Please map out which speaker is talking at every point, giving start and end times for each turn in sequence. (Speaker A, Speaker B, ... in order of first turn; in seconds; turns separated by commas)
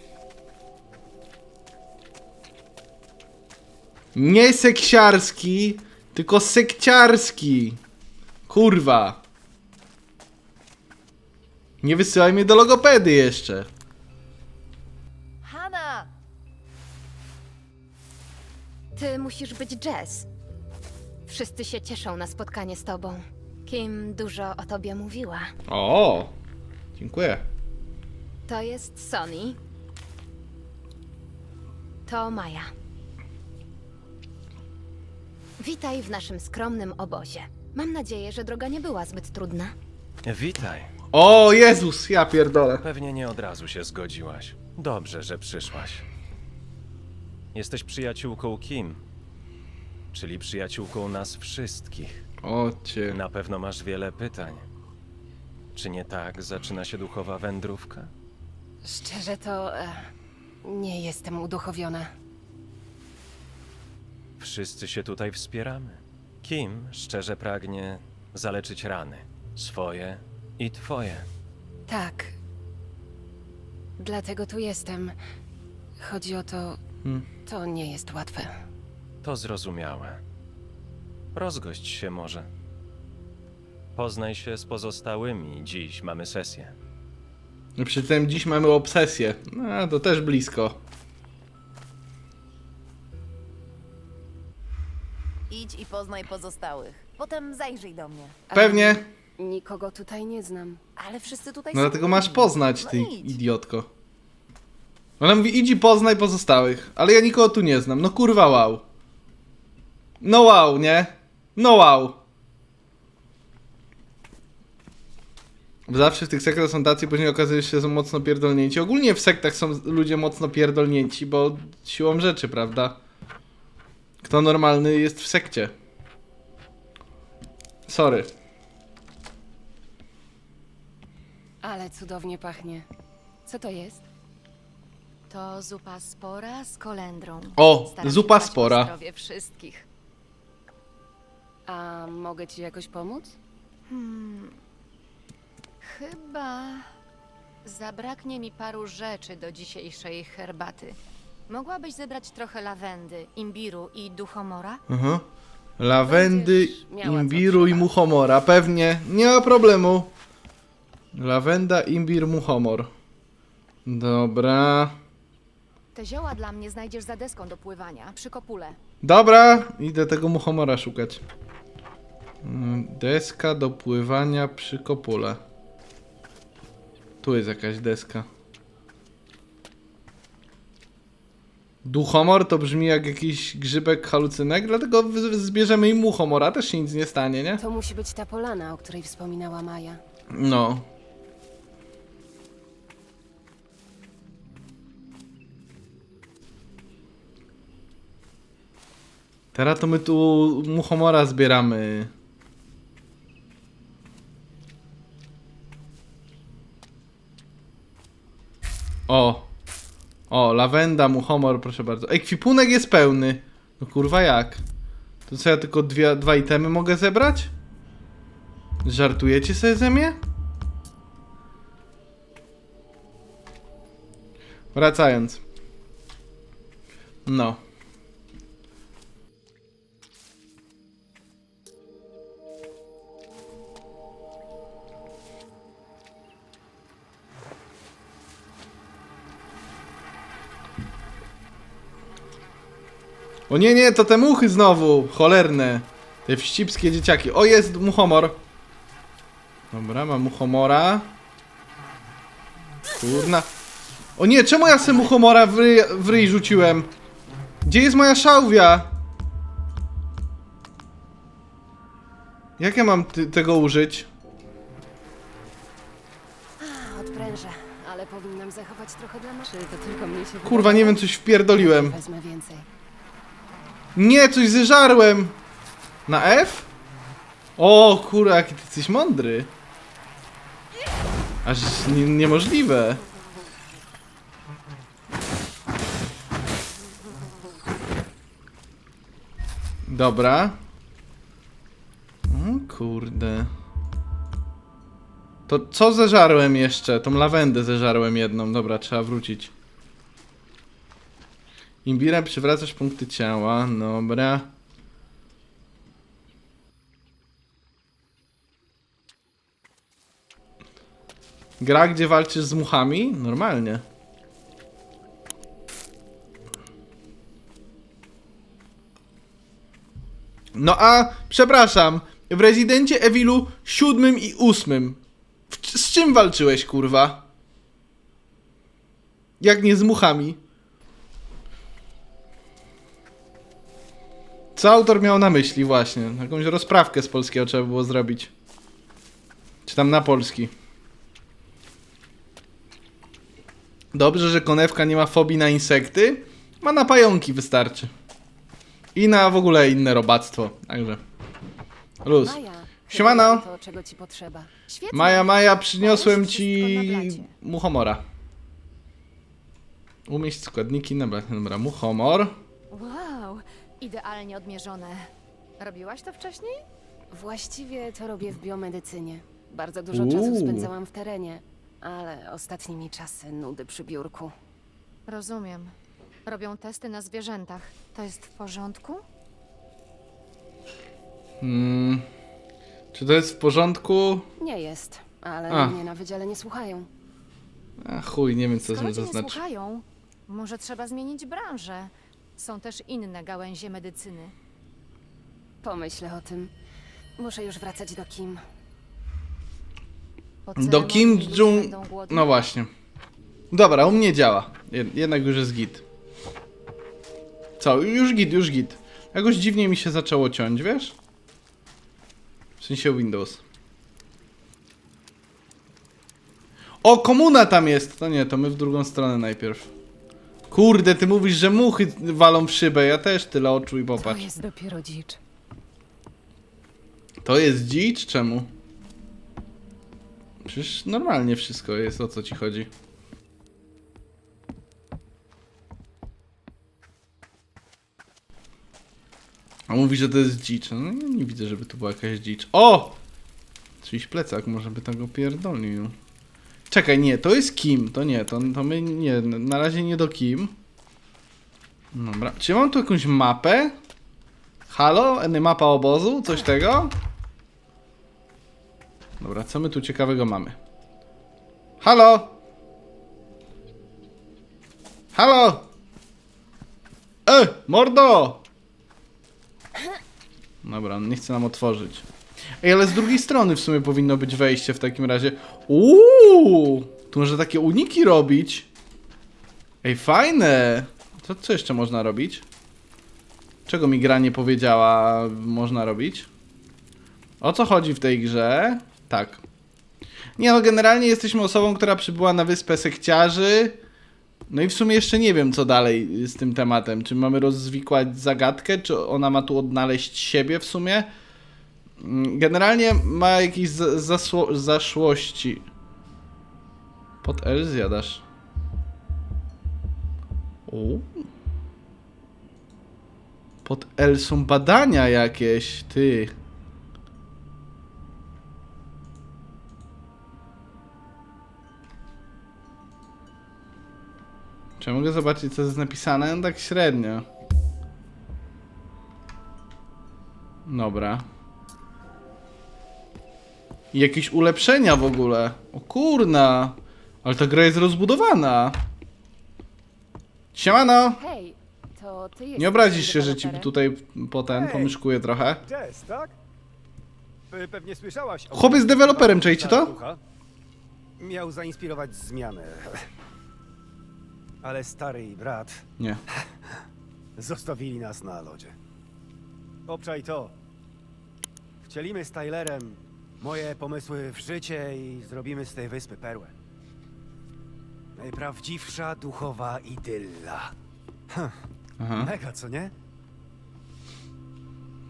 Speaker A: 4.2-7.8, Speaker A: 8.5-9.2, Speaker A: 11.8-13.7, Speaker B: 15.4-16.1, Speaker B: 19.0-20.3, Speaker B: 21.3-25.5, Speaker A: 25.7-26.3, Speaker A: 27.0-27.4, Speaker B: 28.5-29.6, Speaker B: 32.1-32.7, Speaker B: 35.6-39.7, Speaker C: 40.3-40.9, Speaker A: 41.1-42.8, Speaker C: 42.8-46.1, Speaker C: 47.5-49.0, Speaker C: 50.1-52.2, Speaker A: 52.4-53.2, Speaker C: 53.0-54.6, Speaker C: 55.7-58.1, Speaker D: 58.8-60.1, Speaker D: 60.6-62.1, Speaker C: 64.4-71.3, Speaker D: 71.9-72.4, Speaker D: 74.0-75.2, Speaker D: 76.0-76.8, Speaker D: 77.5-78.5, Speaker C: 79.2-80.2, Speaker C: 81.3-82.5, Speaker C: 84.0-86.8, Speaker A: 87.8-90.8, Speaker E: 95.5-98.4, Speaker D: 98.5-100.8, Speaker A: 98.5-99.1, Speaker E: 101.0-103.3, Speaker A: 101.7-103.9, Speaker A: 105.2-108.8, Speaker A: 110.2-112.2, Speaker A: 115.9-123.0, Speaker A: 124.2-125.7, Speaker A: 127.9-128.3, Speaker D: 131.6-132.9, Speaker D: 133.5-134.1, Speaker B: 135.3-139.8, Speaker A: 137.6-138.9, Speaker D: 141.7-143.4, Speaker B: 143.9-144.6, Speaker B: 145.8-146.9, Speaker B: 147.7-151.0, Speaker B: 151.5-154.8, Speaker A: 154.9-155.2, Speaker A: 155.8-160.1, Speaker D: 156.1-157.9, Speaker A: 161.1-162.9, Speaker A: 163.9-165.0, Speaker B: 165.9-168.8, Speaker A: 169.0-171.2, Speaker A: 172.4-175.4, Speaker A: 177.2-178.3, Speaker A: 181.8-187.6, Speaker D: 187.6-190.0, Speaker A: 190.3-190.8, Speaker A: 199.5-202.1, Speaker A: 209.1-209.5, Speaker A: 210.3-214.6, Speaker A: 215.3-217.5, Speaker A: 218.8-220.2, Speaker A: 224.7-225.4, Speaker A: 227.3-227.6, Speaker A: 243.5-248.4, Speaker A: 249.7-251.1, Speaker A: 252.9-253.5, Speaker A: 254.2-256.9, Speaker A: 257.6-258.9, Speaker A: 262.6-264.1, Speaker D: 266.6-272.7, Speaker A: 270.4-272.0, Speaker A: 273.9-275.4, Speaker A: 276.1-276.7, Speaker A: 277.6-279.5, Speaker A: 281.4-283.0, Speaker A: 289.9-290.6, Speaker A: 292.3-293.5, Speaker A: 295.5-299.5, Speaker A: 301.9-304.5, Speaker A: 311.6-313.8, Speaker A: 320.6-327.2, Speaker A: 329.4-330.4, Speaker A: 334.6-338.3, Speaker A: 339.7-340.5, Speaker A: 343.9-347.9, Speaker A: 348.9-351.0, Speaker A: 352.1-353.5, Speaker D: 352.2-354.5, Speaker B: 354.7-357.3, Speaker A: 354.9-358.0, Speaker A: 360.1-362.4, Speaker B: 362.7-366.6, Speaker D: 367.1-374.3, Speaker A: 369.9-370.7, Speaker B: 375.1-375.7, Speaker B: 376.3-379.0, Speaker A: 381.4-382.1, Speaker A: 382.9-384.3, Speaker D: 384.4-386.9, Speaker A: 385.5-385.8, Speaker A: 387.8-389.4, Speaker B: 388.7-394.4, Speaker D: 395.6-396.5, Speaker D: 397.2-398.4, Speaker B: 400.5-402.3, Speaker A: 400.6-402.7, Speaker A: 403.5-405.8, Speaker A: 407.6-410.9, Speaker A: 412.6-413.4, Speaker A: 416.8-419.7, Speaker A: 420.5-424.3, Speaker D: 424.0-425.2, Speaker A: 427.2-428.5, Speaker A: 430.4-432.7, Speaker A: 439.7-443.0, Speaker A: 443.8-445.9, Speaker A: 446.7-450.6, Speaker A: 451.9-453.7, Speaker A: 454.7-456.9, Speaker A: 459.2-460.6, Speaker A: 461.8-462.4, Speaker A: 465.1-465.7, Speaker A: 467.3-468.4, Speaker A: 470.6-472.1, Speaker A: 472.6-478.7, Speaker A: 479.8-482.4, Speaker A: 483.7-486.3, Speaker A: 487.4-489.4, Speaker A: 490.4-493.8, Speaker A: 494.5-501.1, Speaker A: 502.0-505.7, Speaker A: 507.2-508.2, Speaker A: 510.7-511.3, Speaker A: 513.6-516.4, Speaker A: 524.8-527.2, Speaker A: 530.7-531.3, Speaker A: 533.9-538.8, Speaker A: 540.5-541.2, Speaker D: 541.2-543.7, Speaker A: 542.6-545.6, Speaker F: 544.5-544.9, Speaker F: 545.6-546.3, Speaker F: 547.5-550.2, Speaker A: 548.5-549.9, Speaker F: 551.2-553.0, Speaker F: 554.6-555.8, Speaker F: 557.4-558.8, Speaker F: 559.9-560.5, Speaker F: 561.8-566.5, Speaker F: 568.2-570.7, Speaker F: 571.3-571.5, Speaker A: 572.0-572.3, Speaker F: 572.2-572.9